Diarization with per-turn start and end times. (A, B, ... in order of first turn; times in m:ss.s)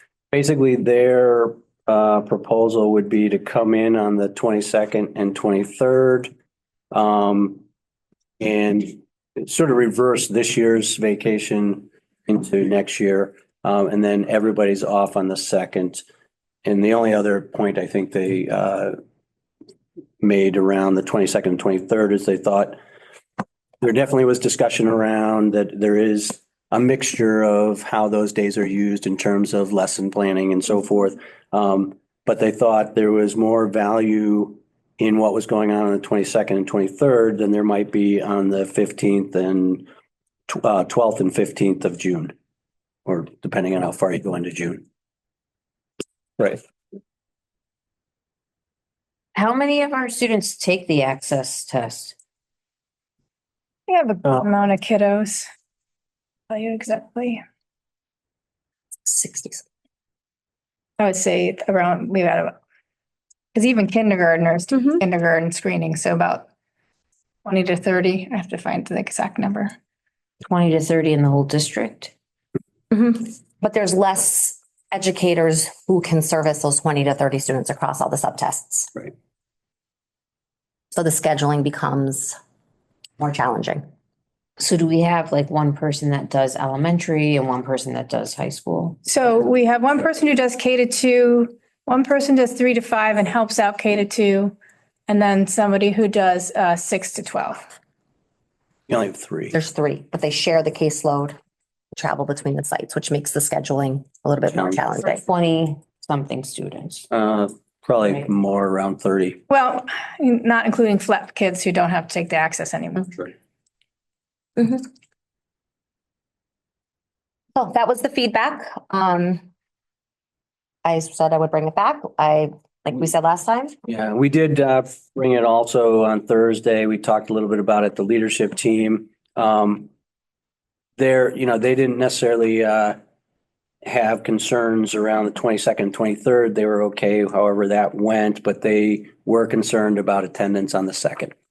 0:00.3-0:06.3 A
0:06.9-0:07.6 A
0:08.4-0:16.0 A
0:16.6-0:18.9 A
0:20.2-0:22.8 A
0:23.8-0:39.9 A
0:40.5-0:42.3 A
0:43.0-0:44.8 A
0:49.3-0:52.1 B
0:53.9-0:55.5 C
0:56.5-0:57.4 C
0:59.0-0:59.6 D
1:01.0-1:02.5 C
1:03.5-1:06.5 C
1:07.4-1:09.7 C
1:10.4-1:12.1 B
1:12.9-1:19.1 D
1:20.9-1:22.4 D
1:23.2-1:23.8 D
1:24.6-1:29.0 B
1:29.0-1:34.6 C
1:35.1-1:37.7 C
1:38.9-1:39.6 A
1:39.5-1:41.4 D
1:41.9-1:45.2 D
1:44.5-1:44.8 A
1:44.9-1:47.0 B
1:47.1-1:49.4 A
1:49.5-1:53.3 C
1:54.6-1:54.9 D
1:57.6-1:59.4 D
2:00.8-2:03.7 D
2:03.9-2:09.9 A
2:11.0-2:13.0 A
2:13.8-2:21.3 A